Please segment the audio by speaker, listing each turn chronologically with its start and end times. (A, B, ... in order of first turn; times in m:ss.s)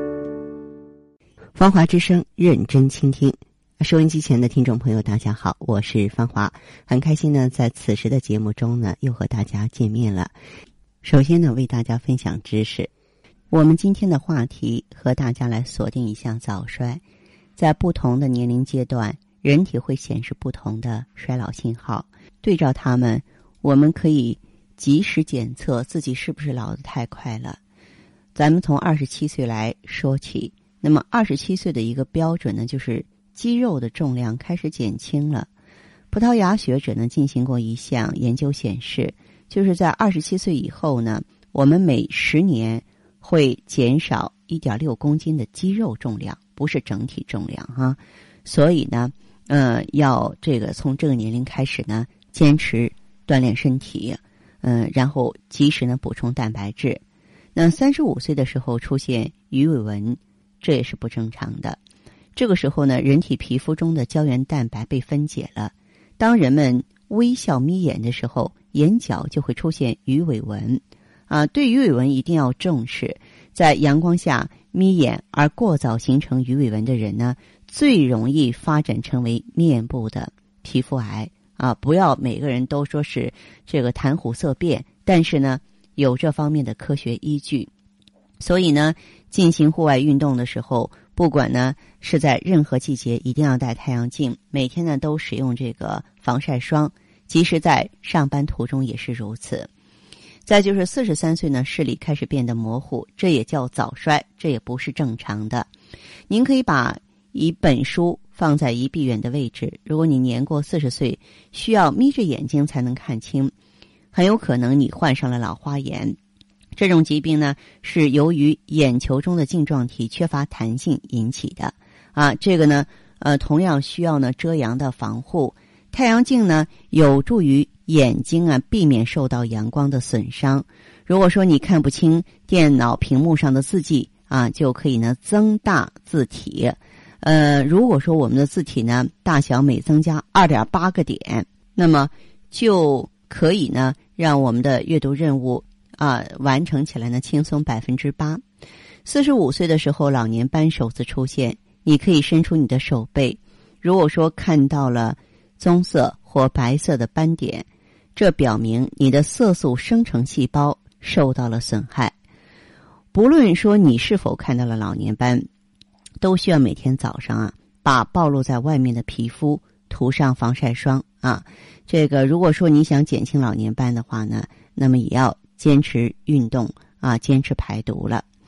0:01.6-0:10.3 A
0:11.0-0:12.9 A
0:13.5-0:17.0 A
0:17.6-0:27.6 A
0:28.4-0:35.5 A
0:36.1-0:57.0 A
0:57.6-1:01.8 A
1:02.4-1:27.7 A
1:28.4-1:39.7 A
1:40.5-1:45.7 A
1:46.3-1:53.5 A
1:54.1-1:56.2 A
1:56.8-2:28.4 A
2:29.0-2:42.1 A
2:43.1-2:45.5 A
2:46.2-2:58.2 A